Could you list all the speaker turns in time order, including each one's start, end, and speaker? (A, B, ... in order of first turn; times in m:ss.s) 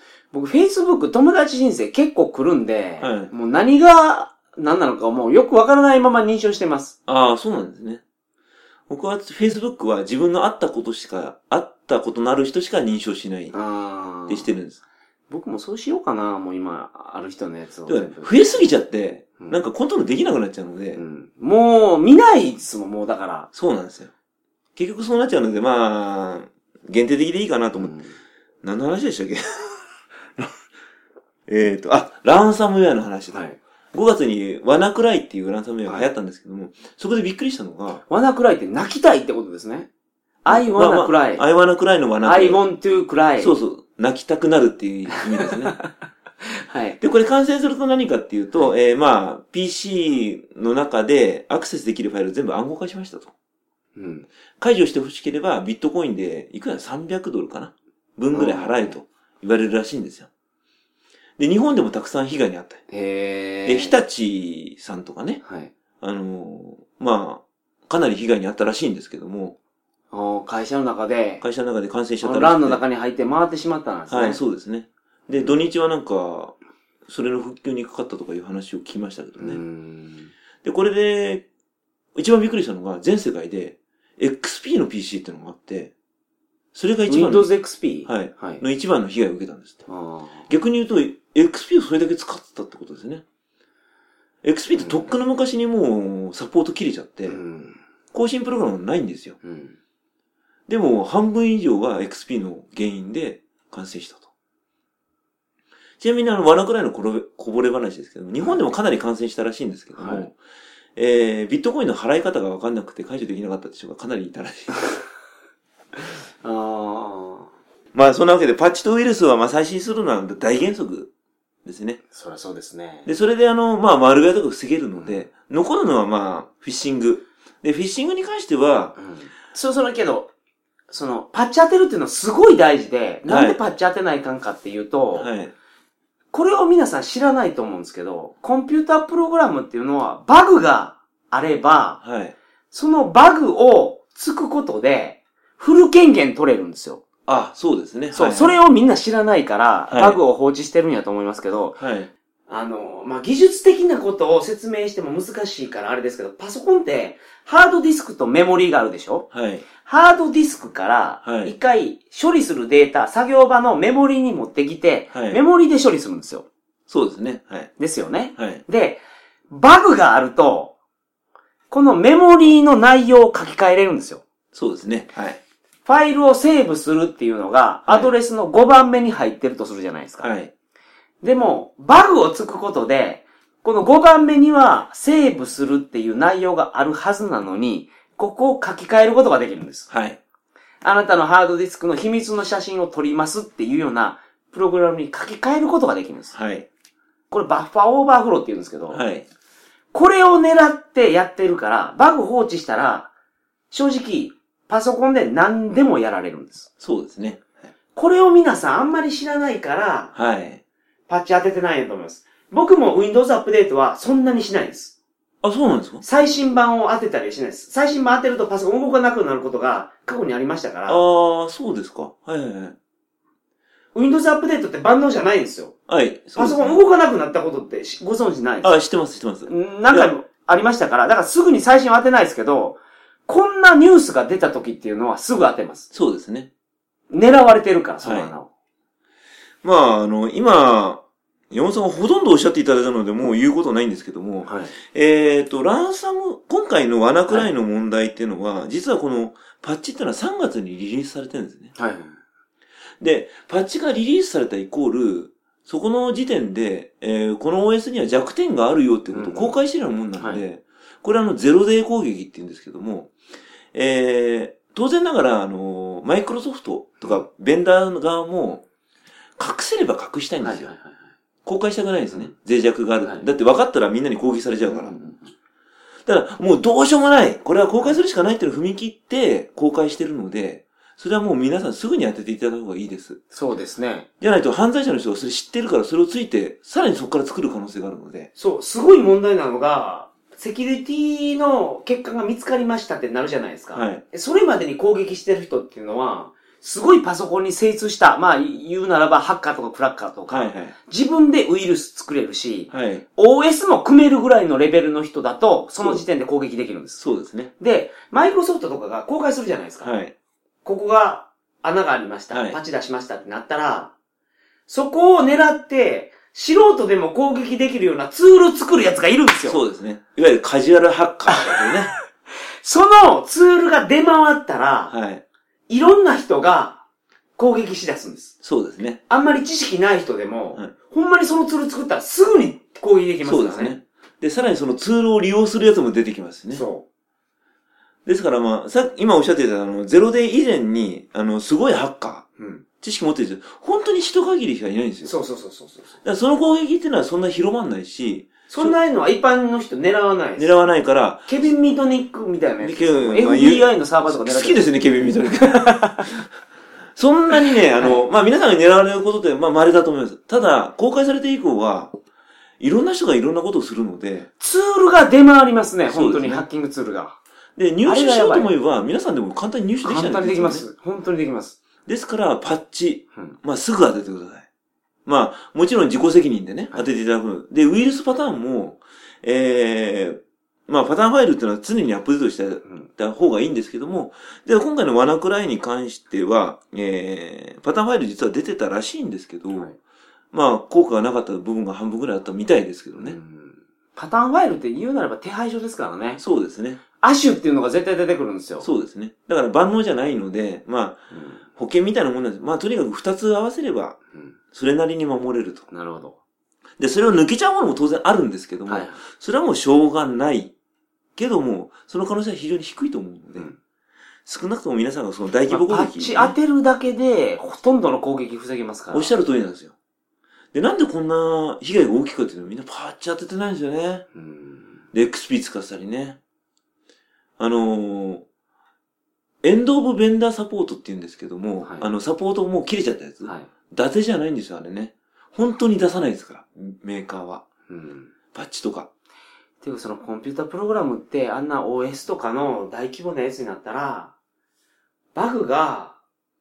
0:00.3-0:07.0 A
0:03.0-0:03.3 B
0:07.1-0:08.0 B
0:08.9-0:13.5 B
0:13.5-0:14.5 A
0:14.3-0:14.8 B
0:15.3-0:18.7 A
0:17.9-0:21.0 B
0:21.0-0:23.5 A
0:23.5-0:24.1 B
0:24.8-0:27.9 B
0:27.8-0:28.2 A
0:28.6-0:29.8 B
0:31.5-0:33.4 B
0:33.3-0:33.6 A
0:33.9-0:38.0 B
0:38.1-0:39.9 A
0:40.4-0:41.4 A
0:40.5-0:42.6 B
0:42.2-0:43.6 A
0:43.4-0:45.8 B
0:45.2-0:45.9 A
0:46.4-0:47.0 A
0:47.0-0:53.3 B
0:54.0-0:54.3 A
0:54.6-1:00.3 B
0:58.3-0:59.0 A
1:01.4-1:02.8 B
1:02.9-1:04.0 A
1:03.6-1:05.4 B
1:05.4-1:05.7 A
1:06.0-1:09.6 B
1:10.1-1:11.4 A
1:11.4-1:12.8 B
1:12.2-1:14.4 A
1:14.1-1:16.5 B
1:17.1-1:19.6 B
1:19.4-1:20.3 A
1:20.6-1:21.4 B
1:22.2-1:25.9 B
1:26.7-1:27.5 B
1:27.1-1:28.6 A
1:28.1-1:29.9 B
1:29.9-1:30.5 A
1:30.5-1:33.2 B
1:34.4-1:37.4 B
1:34.8-1:35.1 A
1:37.3-1:37.8 A
1:38.1-1:39.4 B
1:39.4-1:39.8 A
1:40.7-1:44.3 B
1:46.0-1:50.4 B
1:50.0-1:50.3 A
1:51.0-1:55.0 B
1:56.4-1:57.5 A
1:57.9-2:01.1 B
2:01.6-2:02.0 B
2:02.1-2:03.1 A
2:03.0-2:09.0 B
2:09.0-2:10.3 A
2:10.9-2:15.3 A
2:13.3-2:13.6 B
2:15.2-2:15.5 B
2:16.3-2:22.0 A
2:22.0-2:22.4 B
2:22.7-2:27.0 A
2:27.3-2:28.6 B
2:28.1-2:31.8 A
2:29.9-2:30.2 B
2:31.8-2:32.1 B
2:32.5-2:39.3 A
2:39.3-2:39.7 B
2:39.8-2:46.5 A
2:41.2-2:41.5 B
2:45.1-2:45.4 B
2:46.9-2:47.7 B
2:47.8-2:50.8 A
2:48.4-2:48.6 B
2:51.7-2:54.2 A
2:54.5-2:55.4 B
2:55.9-3:00.3 A
2:57.9-2:58.1 B
3:00.2-3:00.5 B
3:01.2-3:09.9 A
3:09.9-3:10.2 B
3:10.8-3:16.4 A
3:16.3-3:16.7 B
3:17.3-3:19.0 A
3:18.9-3:19.3 B
3:19.9-3:23.1 A
3:23.7-3:26.7 A
3:26.8-3:27.6 B
3:28.0-3:30.1 A
3:30.2-3:30.6 B
3:31.1-3:35.0 A
3:35.4-3:36.0 B
3:36.0-3:41.0 A
3:40.9-3:42.8 B
3:44.0-3:45.8 A
3:45.9-3:46.8 B
3:46.4-3:48.7 A
3:48.6-3:50.1 B
3:49.5-3:55.9 A
3:55.9-3:56.5 B
3:57.1-3:58.5 A
3:58.0-3:58.3 B
3:59.6-4:11.7 B
4:04.4-4:04.8 A
4:11.8-4:12.2 A
4:13.0-4:23.1 B
4:19.1-4:19.6 A
4:20.2-4:20.4 A
4:23.7-4:28.6 B
4:27.0-4:27.2 A
4:29.4-4:30.7 B
4:30.4-4:31.0 A
4:31.4-4:35.0 B
4:33.0-4:33.3 A
4:34.7-4:35.3 A
4:36.1-4:43.2 B
4:43.3-4:44.1 A
4:44.2-4:48.3 B
4:48.4-5:07.0 A
4:53.7-4:54.0 B
5:00.3-5:00.8 B
5:02.7-5:03.0 B
5:05.8-5:06.0 B
5:07.0-5:07.5 B
5:07.6-5:10.0 A
5:09.8-5:10.1 B
5:10.6-5:13.9 A
5:12.3-5:12.6 B
5:14.7-5:19.6 A
5:19.4-5:21.9 B
5:21.3-5:21.7 A
5:22.6-5:24.9 A
5:24.9-5:25.2 B
5:25.7-5:26.8 A
5:27.4-5:28.3 A
5:28.4-5:29.0 B
5:29.1-5:33.8 A
5:33.2-5:36.6 B
5:36.5-5:36.8 A
5:38.1-5:42.3 B
5:42.4-5:42.6 A
5:42.8-5:45.1 B
5:45.0-5:46.0 A
5:46.0-5:48.8 B
5:48.5-5:50.6 A
5:50.4-5:51.3 B
5:51.3-5:54.7 A
5:52.6-5:55.9 B
5:55.3-5:56.1 A
5:57.0-6:01.9 B
6:02.6-6:04.3 B
6:04.4-6:07.2 A
6:05.9-6:06.5 B
6:07.6-6:10.7 B
6:07.8-6:08.5 A
6:09.8-6:11.6 A
6:11.9-6:14.5 B
6:15.1-6:29.7 B
6:29.5-6:29.8 A
6:30.3-6:33.2 B
6:33.0-6:36.2 A
6:36.2-6:36.8 B
6:37.0-6:38.7 A
6:38.6-6:44.0 B
6:41.1-6:41.4 A
6:44.1-6:44.4 A
6:44.5-6:45.7 B
6:45.7-6:46.2 A
6:46.8-6:50.5 B
6:48.7-6:49.0 A
6:51.2-6:53.5 B
6:54.3-6:56.4 B
6:55.5-6:59.1 A
6:58.9-6:59.7 B
7:00.5-7:04.1 B
7:04.1-7:04.8 A
7:04.9-7:06.2 B
7:07.4-7:08.2 B
7:09.4-7:17.4 B
7:11.6-7:11.9 A
7:13.2-7:13.5 A
7:17.7-7:18.1 A
7:18.3-7:18.9 B
7:19.6-7:24.1 A
7:25.2-7:26.0 A